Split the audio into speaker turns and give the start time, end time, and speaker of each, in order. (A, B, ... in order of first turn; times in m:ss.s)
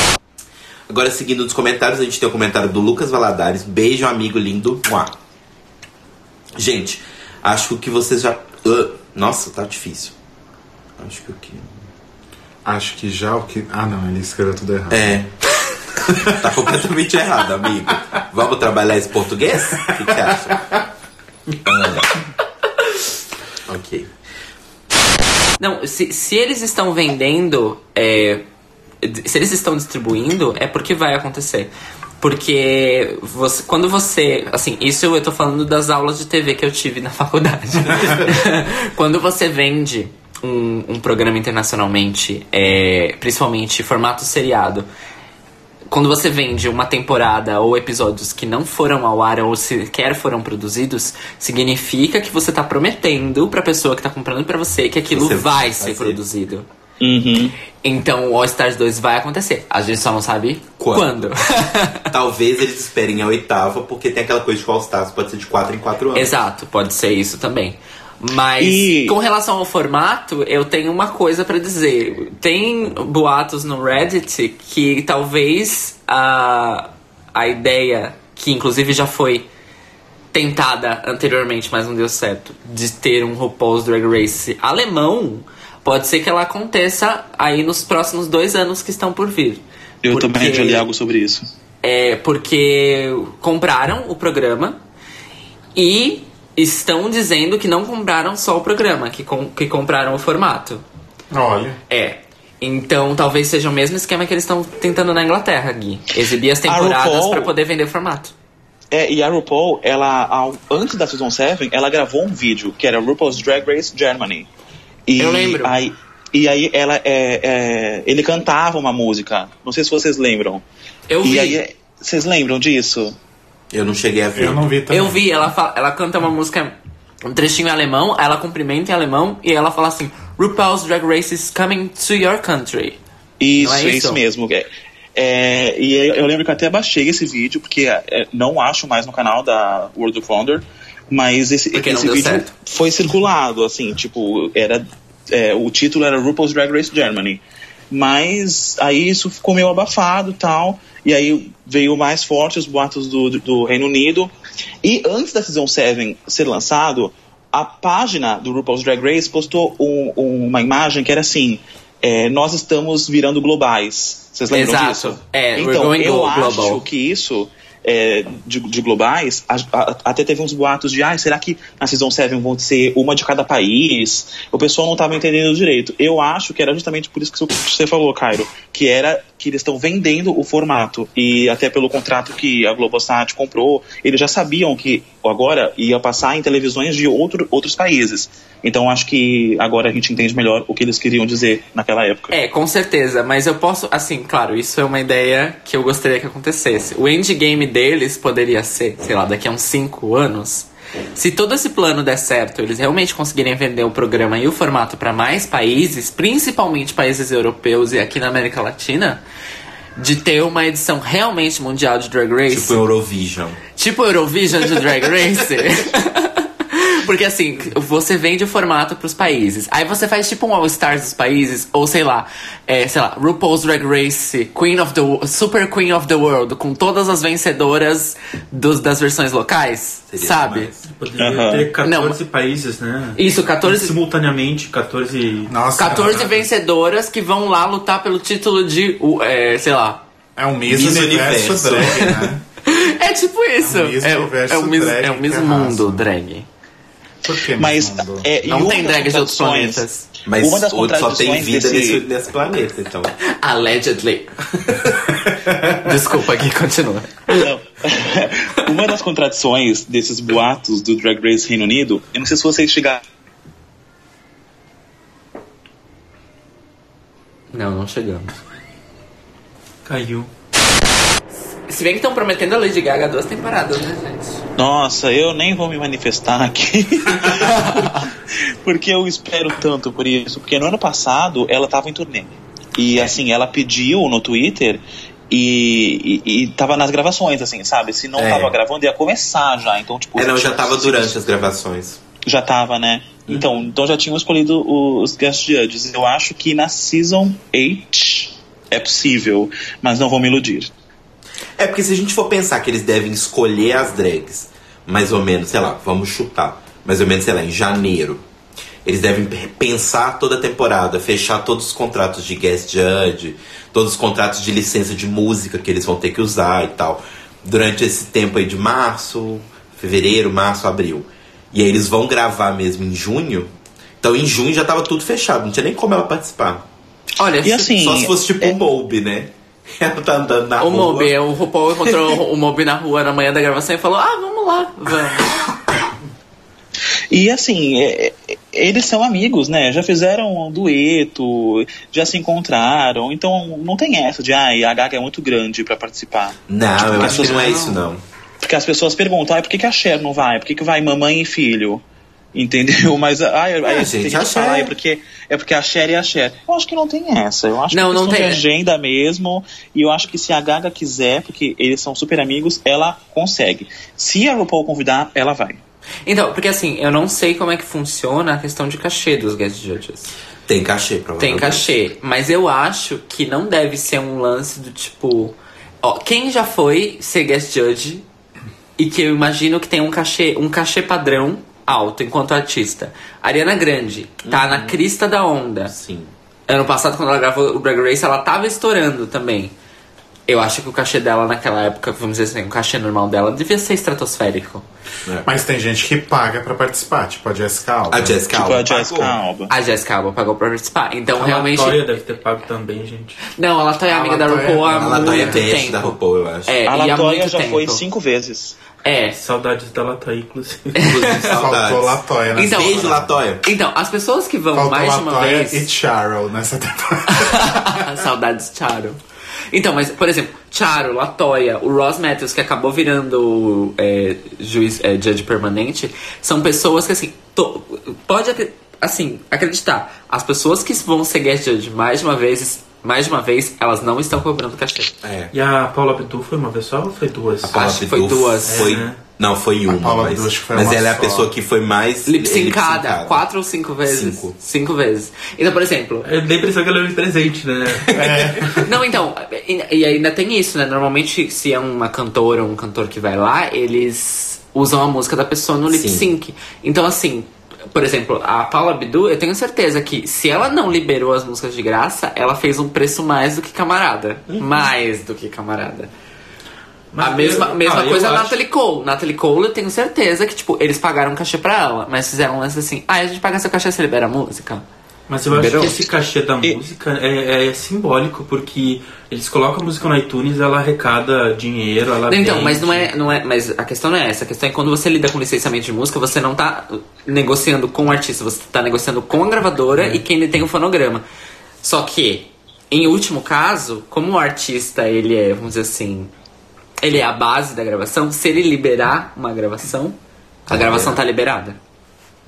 0:00.9-0:05.1 A
0:06.6-0:10.2 A
0:11.0-0:11.8 A
0:12.6-0:15.1 B
0:14.9-0:15.3 A
0:16.3-0:20.7 A
0:21.6-0:22.2 A
0:23.7-0:24.1 A
0:25.6-0:28.4 C
0:29.0-0:44.9 C
0:45.9-0:56.7 C
0:55.1-0:56.2 A
0:57.0-0:57.6 D
0:57.8-1:02.1 C
1:00.8-1:01.3 A
1:02.1-1:06.3 A
1:06.1-1:19.5 C
1:08.6-1:09.2 D
1:20.3-1:30.9 C
1:30.0-1:31.5 D
1:31.8-1:34.8 C
1:35.8-1:40.8 C
1:41.3-1:41.8 B
1:41.9-1:48.3 C
1:46.7-1:47.5 D
1:48.9-1:54.5 D
1:55.1-2:00.6 D
1:55.2-1:55.8 C
2:01.1-2:01.6 C
2:01.2-2:03.2 D
2:03.7-2:04.6 A
2:04.3-2:05.2 B
2:04.9-2:13.0 C
2:13.4-2:34.3 D
2:13.6-2:14.2 C
2:21.7-2:22.5 C
2:34.8-3:12.3 D
2:44.5-2:46.8 C
3:12.3-3:29.2 C
3:30.0-3:32.8 C
3:32.5-3:33.6 A
3:33.8-3:50.7 C
3:50.1-3:50.9 A
3:51.0-3:55.6 E
3:51.2-3:51.7 D
3:51.8-3:52.2 C
3:53.2-3:53.9 C
3:55.5-3:56.5 B
3:55.8-4:00.0 C
4:00.4-4:02.4 B
4:00.7-4:02.3 A
4:02.6-4:06.5 C
4:03.6-4:06.1 B
4:07.2-4:08.3 B
4:07.6-4:09.8 D
4:08.4-4:10.1 C
4:10.3-4:13.1 A
4:10.4-4:12.0 D
4:13.2-4:17.5 C
4:17.3-4:23.0 D
4:27.5-4:28.4 C
4:29.9-4:30.3 E
4:31.6-4:34.4 C
4:34.6-4:51.2 D
4:37.4-4:38.0 C
4:48.2-4:48.5 A
4:50.2-4:52.0 A
4:52.2-5:00.7 D
5:01.6-5:08.2 A
5:08.8-5:26.6 A
5:27.2-5:27.8 C
5:27.4-5:28.6 D
5:27.7-5:31.1 A
5:30.6-5:35.5 C
5:37.1-5:47.6 D
5:46.5-5:48.0 A
5:46.9-5:47.8 C
5:48.4-5:51.8 D
5:52.3-6:05.6 D
5:53.6-5:54.7 A
5:57.7-5:58.4 C
6:06.1-6:10.1 C
6:10.5-6:11.6 A
6:11.2-6:18.0 C
6:18.8-6:25.7 C
6:24.2-6:24.8 A
6:25.7-6:26.1 A
6:26.5-6:29.5 C
6:30.3-6:34.7 C
6:35.2-6:38.2 B
6:37.9-6:39.2 A
6:38.3-6:39.5 D
6:39.5-6:41.8 C
6:41.2-6:43.2 E
6:43.3-6:47.8 C
6:43.9-6:45.5 B
6:44.8-6:46.6 A
6:46.6-6:48.6 D
6:48.8-6:49.2 C
6:49.2-6:50.9 E
6:50.8-6:51.4 C
6:50.8-6:53.5 A
6:51.3-6:53.2 B
6:52.4-6:55.7 C
6:54.5-6:57.9 B
6:57.1-6:59.0 C
6:59.5-7:14.9 C
7:15.0-7:15.3 A
7:15.3-7:17.6 E
7:17.4-7:23.3 A
7:17.5-7:18.8 C
7:18.4-7:19.0 E
7:19.7-7:21.3 B
7:22.1-7:26.1 C
7:23.8-7:24.4 A
7:26.0-7:28.6 E
7:27.9-7:28.7 B
7:28.5-7:45.9 C
7:35.7-7:36.1 A
7:44.3-7:44.6 A
7:46.9-7:48.4 E
7:47.0-7:54.7 C
7:55.1-8:02.9 E
7:55.3-7:55.8 C
8:02.1-8:11.0 C
8:09.8-8:10.0 E
8:11.6-8:16.1 C
8:16.8-8:21.6 C
8:20.5-8:21.0 A